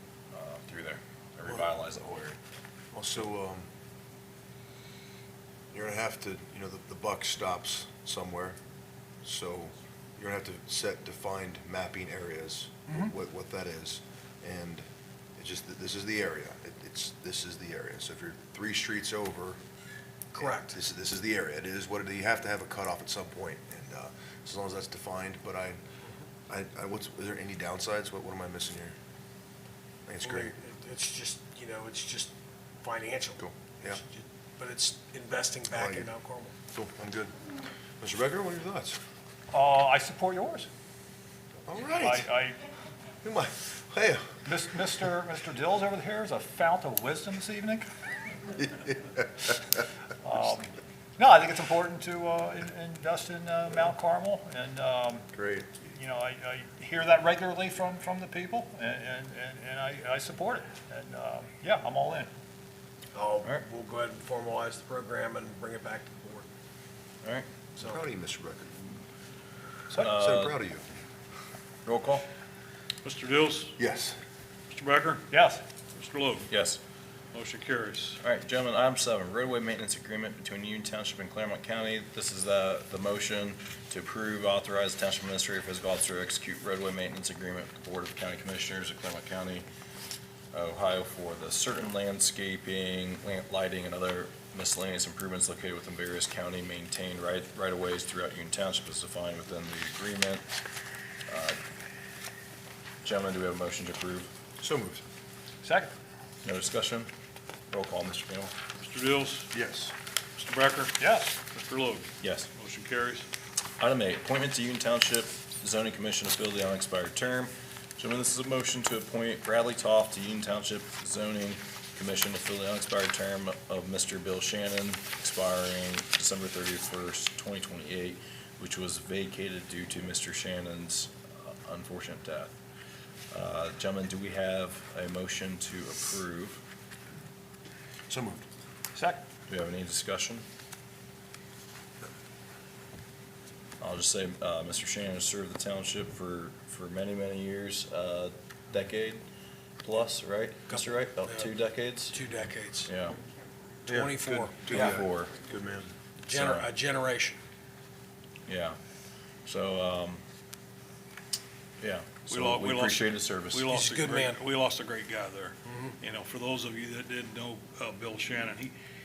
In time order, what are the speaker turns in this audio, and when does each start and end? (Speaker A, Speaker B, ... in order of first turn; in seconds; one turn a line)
Speaker A: 0.3-2.4
Speaker B: 2.9-3.7
Speaker B: 5.7-8.6
Speaker B: 9.2-14.8
Speaker B: 15.4-19.6
Speaker C: 20.3-20.7
Speaker B: 20.3-25.8
Speaker B: 26.5-28.9
Speaker B: 30.1-30.5
Speaker C: 30.2-36.5
Speaker B: 33.4-34.0
Speaker B: 35.7-36.1
Speaker B: 36.7-37.4
Speaker B: 38.0-39.0
Speaker D: 39.5-40.7
Speaker B: 41.7-42.3
Speaker D: 42.0-42.6
Speaker B: 43.2-45.1
Speaker D: 44.5-47.9
Speaker D: 50.2-55.3
Speaker B: 55.3-55.7
Speaker D: 55.8-62.3
Speaker C: 63.1-66.5
Speaker B: 67.8-68.8
Speaker B: 69.9-70.8
Speaker A: 70.0-70.5
Speaker A: 71.8-72.3
Speaker E: 73.0-73.8
Speaker B: 73.8-74.2
Speaker E: 74.7-75.3
Speaker D: 75.3-75.6
Speaker E: 75.9-76.5
Speaker A: 76.5-76.8
Speaker E: 77.3-78.2
Speaker A: 78.2-89.7
Speaker A: 90.5-100.5
Speaker A: 101.3-101.6
Speaker A: 103.0-104.3
Speaker B: 104.6-105.0
Speaker D: 105.6-105.9
Speaker A: 106.4-107.1
Speaker A: 107.7-108.5
Speaker E: 108.8-109.5
Speaker B: 109.5-109.9
Speaker E: 110.4-113.3
Speaker D: 111.0-111.4
Speaker A: 112.2-112.5
Speaker A: 113.8-132.6
Speaker A: 133.3-136.6
Speaker B: 138.1-138.4
Speaker D: 138.9-139.2
Speaker A: 139.5-140.4
Speaker A: 143.8-149.2
Speaker A: 149.8-152.2
Speaker C: 150.7-151.5
Speaker C: 152.1-152.9
Speaker A: 152.9-153.2
Speaker C: 153.9-155.0
Speaker B: 153.9-155.9
Speaker A: 154.7-155.3
Speaker C: 156.2-157.4
Speaker A: 156.3-156.7
Speaker A: 158.5-158.8
Speaker A: 159.4-160.2
Speaker A: 161.8-163.7
Speaker E: 162.3-168.7
Speaker C: 163.7-164.4
Speaker C: 165.7-166.0